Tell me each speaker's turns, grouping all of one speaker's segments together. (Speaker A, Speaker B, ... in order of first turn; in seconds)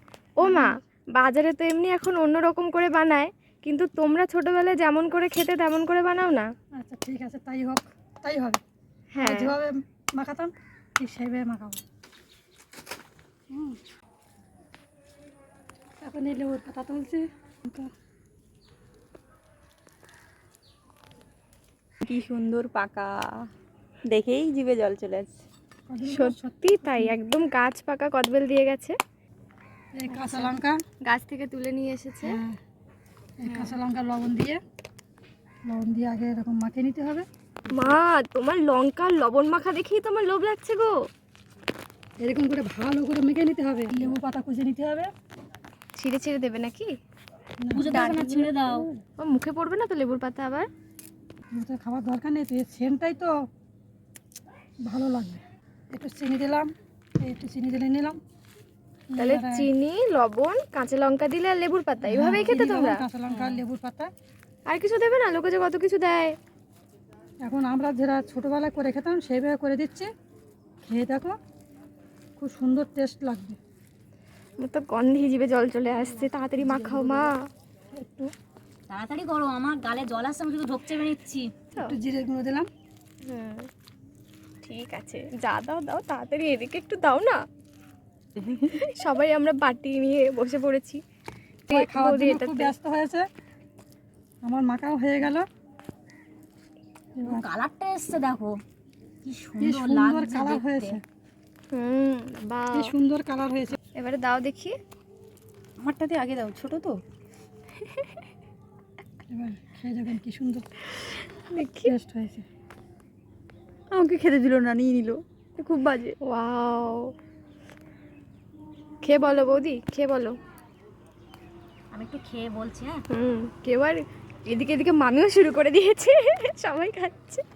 Speaker A: 0.4-6.5, 9.2-9.6, 26.1-29.0, 30.1-30.5, 31.0-32.3, 33.5-33.8, 37.7-41.0, 46.0-46.9, 47.9-48.6, 49.2-50.7, 59.2-63.0, 64.7-66.3, 74.6-77.3, 83.3-83.7, 84.6-87.4, 88.5-91.0, 91.7-92.7, 101.7-102.9, 104.0-104.8, 111.1-111.9, 116.3-117.1, 119.0-120.3, 123.1-127.4
Speaker B: 0.4-0.7, 6.7-8.6, 9.2-11.8, 13.5-13.8, 16.0-17.9, 25.9-27.2, 29.9-30.8, 32.2-32.6, 33.4-34.6, 35.7-37.3, 42.2-45.1, 47.6-48.0, 51.5-53.3, 54.9-58.2, 59.1-59.7, 62.0-64.1, 67.4-70.1, 70.8-71.4, 72.4-73.6, 77.9-78.3, 81.7-82.7, 91.7-93.3, 94.4-95.5, 97.2-97.5, 99.6-101.0, 102.7-103.8, 109.3-110.9, 111.8-112.5
Speaker C: 22.1-23.5, 24.1-25.4, 76.6-77.3, 105.8-107.0, 113.9-116.2
Speaker D: 47.7-48.9, 63.3-63.6, 78.9-81.5, 97.2-98.6, 99.2-101.0, 121.9-123.0